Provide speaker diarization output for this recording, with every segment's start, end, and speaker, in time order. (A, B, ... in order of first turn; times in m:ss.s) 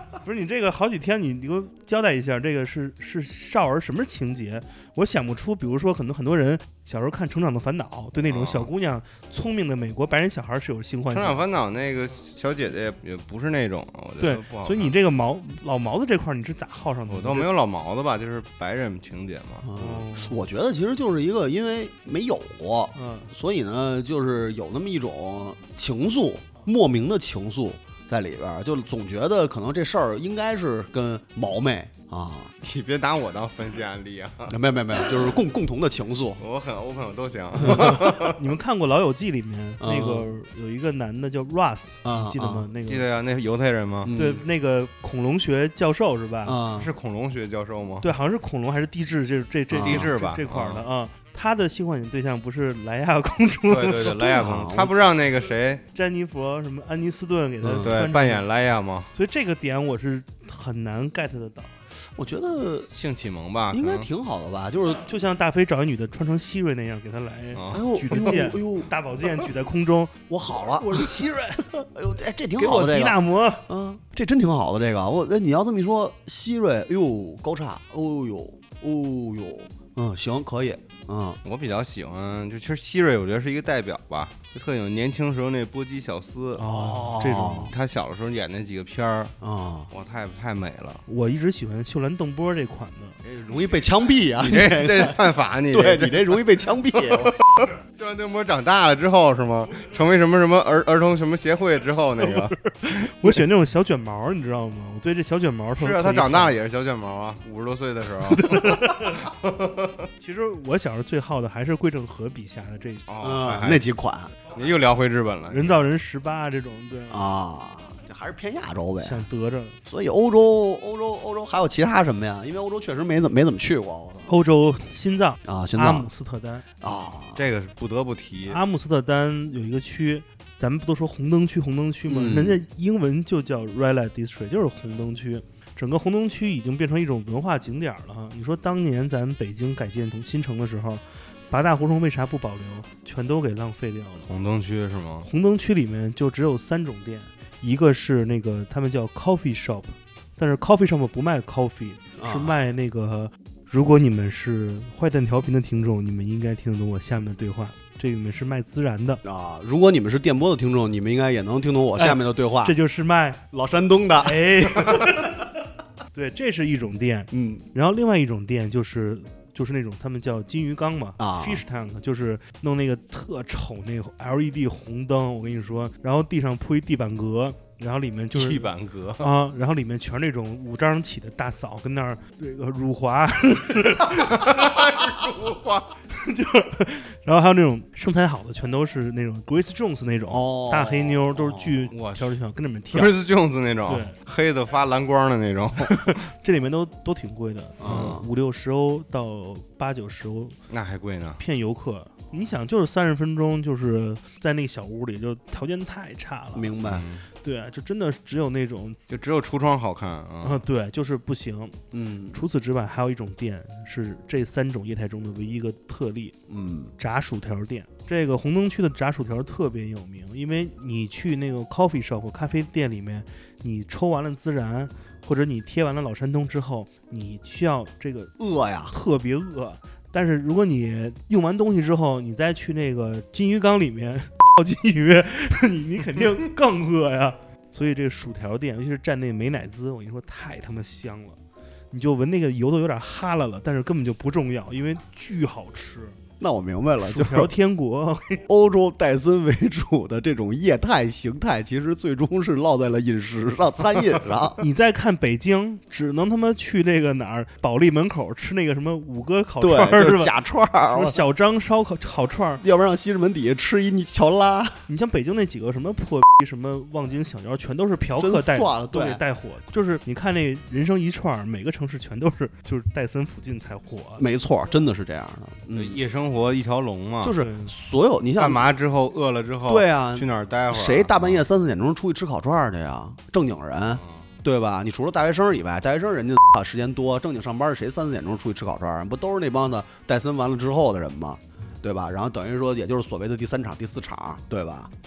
0:00.2-0:11.4 A
0:08.3-0:08.7 B
0:11.1-0:14.9 B
0:14.2-0:17.5 A
0:17.1-0:19.7 B
0:19.6-0:32.5 C
0:19.8-0:20.4 A
0:23.0-0:23.3 A
0:32.6-0:35.4 B
0:34.5-0:36.4 C
0:36.4-0:38.4 B
0:37.6-0:43.1 A
0:37.6-0:38.0 C
0:39.8-0:40.3 C
0:42.0-0:42.7 C
0:42.8-0:44.2 B
0:44.0-0:44.4 C
0:44.2-0:46.6 A
0:46.4-0:46.9 C
0:46.8-0:48.1 B
0:48.0-0:54.2 A
0:49.7-0:50.1 C
0:49.8-0:50.8 B
0:53.7-0:55.8 B
0:54.0-0:54.9 C
0:56.0-0:58.5 A
0:57.6-0:58.0 C
0:57.8-0:59.1 B
0:59.1-1:01.8 A
1:02.0-1:02.9 C
1:02.9-1:04.1 B
1:03.7-1:05.1 C
1:05.0-1:11.7 A
1:07.5-1:08.1 B
1:07.7-1:08.9 C
1:10.3-1:11.2 C
1:11.8-1:21.4 C
1:12.6-1:13.6 A
1:21.4-1:26.7 B
1:26.6-1:27.7 A
1:26.6-1:27.7 C
1:27.6-1:29.4 B
1:29.4-1:29.9 C
1:29.9-1:31.0 B
1:31.1-1:33.2 A
1:33.2-1:37.4 C
1:34.4-1:43.1 B
1:42.2-1:46.6 A
1:45.8-1:50.1 B
1:48.3-1:49.2 A
1:50.2-1:53.1 A
1:53.1-1:53.8 B
1:53.2-1:54.3 C
1:54.5-1:55.8 B
1:55.5-1:57.3 A
1:57.1-1:59.3 C
1:59.0-1:59.8 A
1:59.8-2:04.3 C
2:04.3-2:06.6 A
2:05.4-2:06.1 C
2:06.8-2:07.4 C
2:07.4-2:08.6 B
2:08.5-2:24.3 A
2:12.1-2:12.6 C
2:24.3-2:25.3 B
2:25.2-2:39.2 A
2:32.2-2:32.6 C
2:39.2-2:42.8 C
2:42.0-2:43.4 A
2:43.5-2:45.2 C
2:44.2-2:45.4 A
2:46.1-3:04.6 A
2:47.3-2:47.7 C
2:51.2-2:51.6 C
2:58.3-2:59.3 B
3:04.1-3:06.0 B
3:06.1-3:13.2 A
3:10.3-3:11.9 C
3:11.9-3:12.3 B
3:12.9-3:16.2 B
3:13.9-3:14.2 A
3:15.8-3:20.6 A
3:17.8-3:18.3 C
3:17.8-3:18.2 B
3:20.7-3:21.4 B
3:21.4-3:26.8 A
3:26.6-3:27.1 C
3:26.8-3:27.2 B
3:27.4-3:29.0 A
3:29.1-3:30.6 B
3:30.4-3:31.8 A
3:31.9-3:32.4 C
3:32.3-3:36.4 A
3:36.5-3:36.9 C
3:37.0-3:48.4 A
3:48.4-3:49.0 C
3:48.9-4:01.4 A
4:01.9-4:06.2 A
4:06.4-4:07.5 C
4:07.0-4:08.4 A
4:08.5-4:14.6 C
4:14.6-4:20.3 A
4:19.6-4:21.2 C
4:20.9-4:22.6 A
4:22.6-4:24.8 C
4:24.9-4:34.2 A
4:28.2-4:29.2 C
4:34.2-4:36.0 C
4:35.7-4:37.4 B
4:37.2-4:38.7 C
4:37.4-4:37.7 A
4:38.4-4:41.5 B
4:39.7-4:54.9 C
4:43.9-4:44.3 B